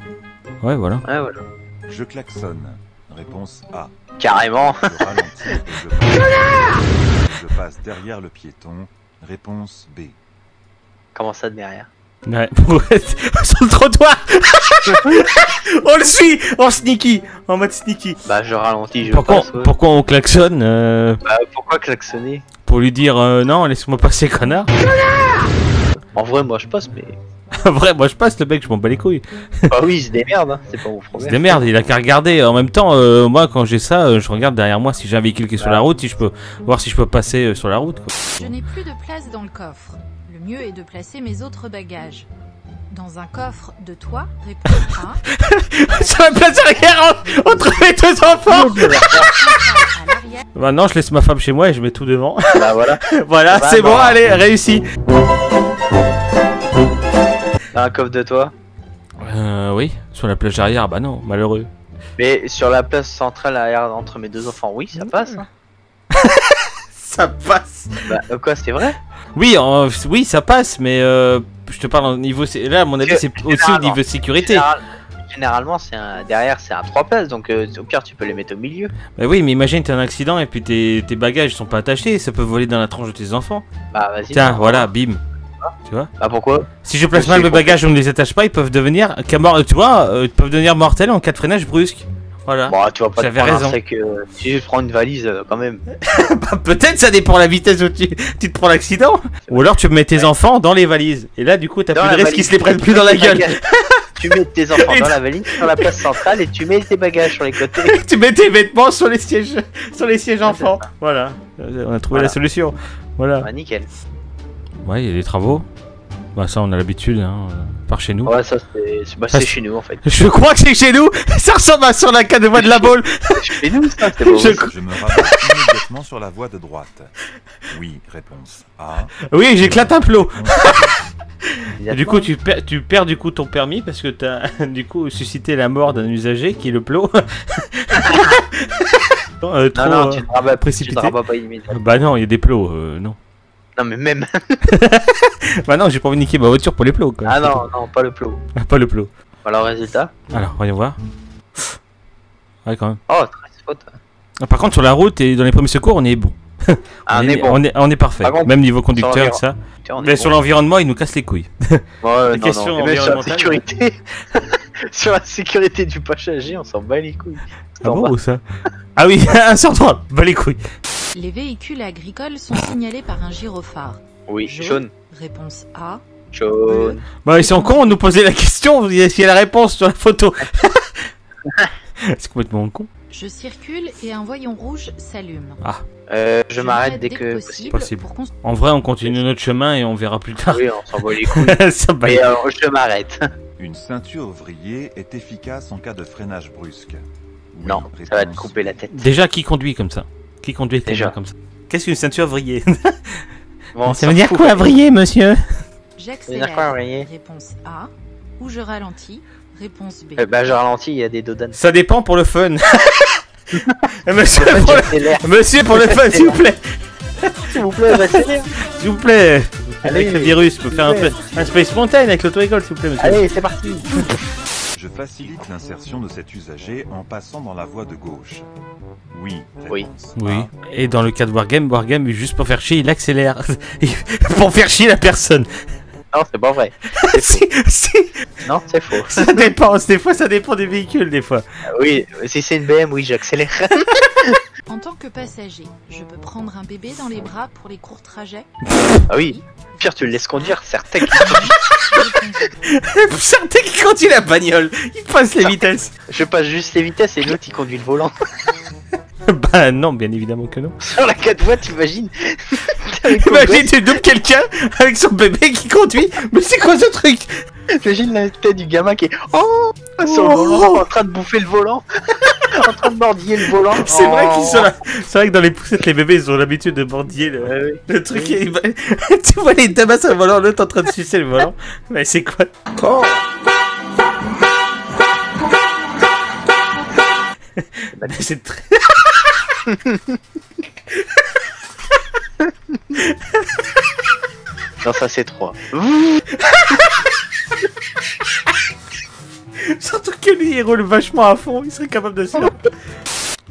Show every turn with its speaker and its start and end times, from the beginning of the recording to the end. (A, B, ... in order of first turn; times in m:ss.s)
0:00.6-0:01.0 A
0:01.0-0:01.4 B
0:01.9-0:10.2 C
0:04.2-0:04.9 B
0:11.1-0:11.9 B
0:12.3-0:18.2 A
0:18.2-0:19.7 B
0:19.0-0:21.2 A
0:21.2-0:22.4 B
0:22.6-0:24.7 A
0:26.1-0:27.2 B
0:27.6-0:29.7 A
0:29.7-0:31.6 B
0:31.2-0:38.5 A
0:35.6-0:35.8 B
0:38.3-0:42.3 D
0:42.9-0:45.2 D
0:45.4-0:49.3 A
0:45.8-0:47.9 D
0:48.4-0:49.3 B
0:48.7-0:50.4 D
0:50.5-0:54.9 A
0:52.5-0:54.2 B
0:57.7-0:58.5 B
0:59.2-1:01.7 A
1:02.2-1:05.4 B
1:05.0-1:05.4 A
1:06.1-1:08.2 A
1:08.1-1:09.0 B
1:09.3-1:14.6 A
1:13.0-1:18.9 B
1:19.2-1:23.6 A
1:23.9-1:24.9 B
1:24.3-1:25.2 A
1:25.6-1:27.8 B
1:26.8-1:33.8 A
1:32.7-1:35.8 B
1:36.0-1:43.8 A
1:39.5-1:40.3 B
1:41.9-1:43.6 B
1:44.2-1:47.9 B
1:44.7-1:46.0 A
1:47.8-1:53.5 A
1:50.4-1:50.8 B
1:53.4-1:53.9 B
1:54.8-1:55.6 A
1:56.4-1:58.3 A
1:58.2-2:00.0 B
1:59.3-2:03.6 A
2:02.5-2:04.7 B
2:04.2-2:05.4 A
2:04.6-2:07.1 C
2:07.7-2:11.0 C
2:09.3-2:10.8 A
2:11.8-2:12.3 B
2:11.8-2:18.6 A
2:19.4-2:21.1 A
2:19.7-2:22.0 B
2:21.7-2:23.2 A
2:23.8-2:24.4 B
2:24.7-2:27.6 A
2:27.2-2:28.4 B
2:28.6-2:29.1 A
2:29.4-2:30.2 B
2:30.3-2:31.0 A
2:32.6-2:33.0 A
2:33.1-2:34.0 B
2:34.4-2:43.6 A
2:37.1-2:37.6 B
2:38.2-2:40.4 B
2:42.0-2:48.1 B
2:47.8-2:48.4 A
2:49.0-2:50.6 A
2:51.1-2:56.0 D
2:54.3-2:54.9 B
2:56.3-2:57.0 B
2:56.7-2:58.0 D
2:57.2-3:01.1 A
3:02.1-3:02.9 A
3:03.1-3:05.6 D
3:06.1-3:07.8 B
3:06.6-3:08.3 D
3:07.7-3:10.6 A
3:10.5-3:13.2 B
3:11.2-3:12.3 A
3:13.6-3:18.8 C
3:17.6-3:19.1 B
3:18.9-3:23.2 A
3:20.8-3:21.1 B
3:23.7-3:24.8 B
3:23.8-3:25.4 A
3:26.0-3:30.5 D
3:26.3-3:27.1 B
3:30.2-3:31.6 B
3:31.5-3:33.2 A
3:34.0-3:36.6 A
3:34.3-3:36.4 B
3:37.2-3:43.2 A
3:37.5-3:38.5 B
3:39.8-3:41.2 B
3:41.2-3:41.7 C
3:43.0-3:44.1 B
3:44.8-3:48.5 C
3:49.1-3:50.5 C
3:50.2-3:55.5 A
3:56.1-3:57.4 B
3:57.0-3:58.1 A
3:58.4-3:59.5 B
3:59.1-4:01.4 A
4:01.7-4:04.4 B
4:04.6-4:09.4 D
4:09.1-4:11.5 B
4:11.1-4:12.6 D
4:12.6-4:15.9 A
4:15.4-4:18.1 B
4:19.3-4:20.8 A
4:20.8-4:23.7 B
4:23.0-4:27.3 A
4:27.7-4:34.7 B
4:30.0-4:30.8 A
4:33.7-4:42.5 A
4:37.4-4:38.4 B
4:47.6-4:49.3 A
4:49.7-4:50.0 B
4:54.8-4:56.2 B
4:56.4-4:56.9 A
4:59.7-5:02.7 A